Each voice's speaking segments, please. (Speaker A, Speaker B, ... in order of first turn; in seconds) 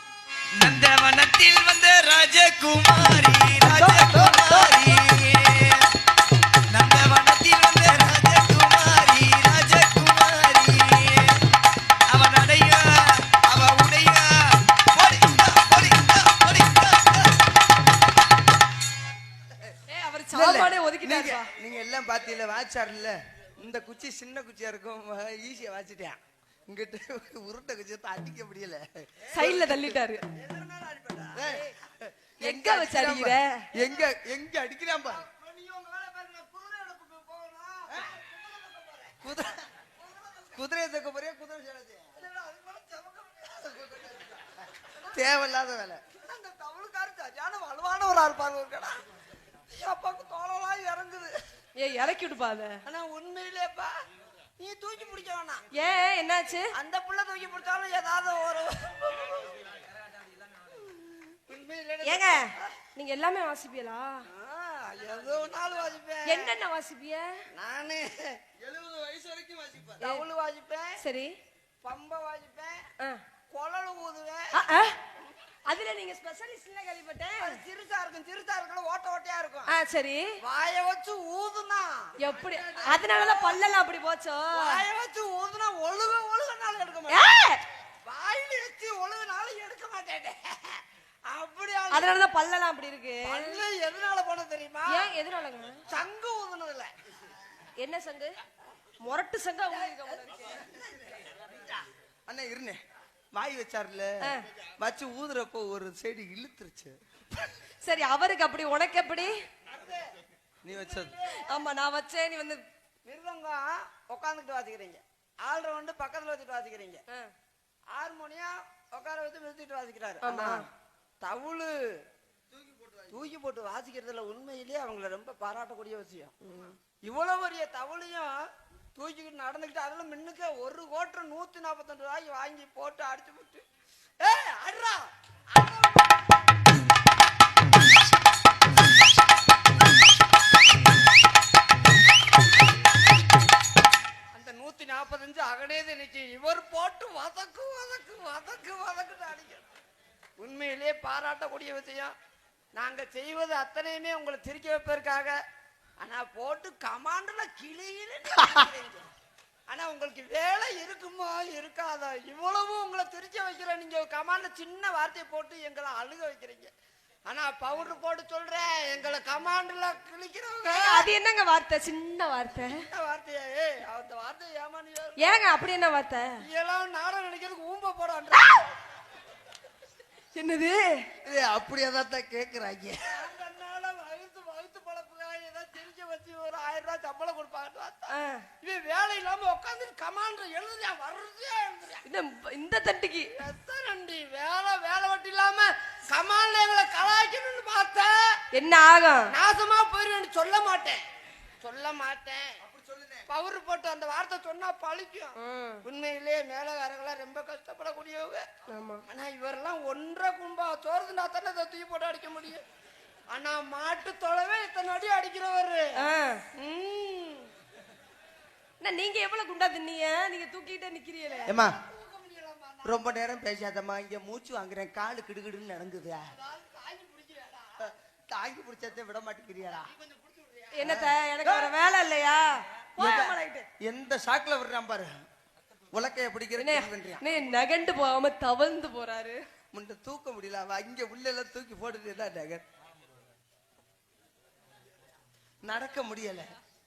Speaker A: 0.5-5.9, 6.7-11.5, 12.1-17.3
Speaker B: 3.6-4.8, 20.3-30.0, 31.3-35.3, 39.2-39.7, 40.5-42.1, 43.8-44.3, 45.0-46.0, 68.6-70.0, 102.3-102.8, 103.3-107.0, 110.6-111.2, 122.5-123.2, 158.4-158.7, 181.2-183.2, 202.6-203.3, 221.5-221.8, 222.8-226.3, 228.3-229.9, 230.8-231.7, 233.0-235.2, 235.9-237.2, 239.7-242.6, 245.6-246.5
Speaker C: 19.9-21.5, 29.3-30.2, 31.4-31.7, 32.4-33.6, 51.8-52.8, 55.7-56.7, 62.0-64.2, 66.3-67.4, 71.0-71.3, 74.5-75.0, 75.7-77.6, 79.7-80.3, 82.2-84.8, 87.1-87.6, 91.9-93.6, 94.9-95.8, 97.8-98.3, 99.0-100.6, 107.8-109.5, 111.3-112.6, 120.2-120.7, 170.6-172.8, 175.2-176.4, 180.3-181.1, 188.1-188.5, 192.1-193.3, 198.5-199.3, 205.4-205.8, 208.7-209.0, 216.0-216.4, 218.8-221.6, 230.8-233.7, 236.6-239.4
Speaker D: 30.3-31.5, 33.8-34.1, 35.1-39.3, 40.0-40.5, 42.1-44.3, 46.2-49.0, 49.7-51.4, 52.9-54.0, 54.6-55.6, 56.7-59.6, 61.0-62.5, 64.3-66.5, 67.5-68.4, 70.0-71.0, 71.8-72.9, 73.5-74.6, 77.4-79.7, 80.4-82.2, 82.8-83.6, 84.5-87.2, 88.1-92.1, 93.2-95.1, 95.9-96.9, 99.7-101.1, 109.6-110.1, 110.7-111.5, 113.0-117.0, 117.9-120.7, 121.2-122.0, 123.1-133.7, 134.2-136.2, 144.3-149.7, 150.4-152.2, 152.8-155.4, 156.0-159.1, 159.7-166.7, 167.3-171.1, 172.8-175.3, 176.4-178.7, 183.0-192.1, 193.4-198.4, 199.3-201.0, 201.6-202.6, 203.3-208.5, 209.1-212.6, 213.3-216.0, 216.5-217.5, 221.6-223.1, 226.3-227.9, 229.9-231.0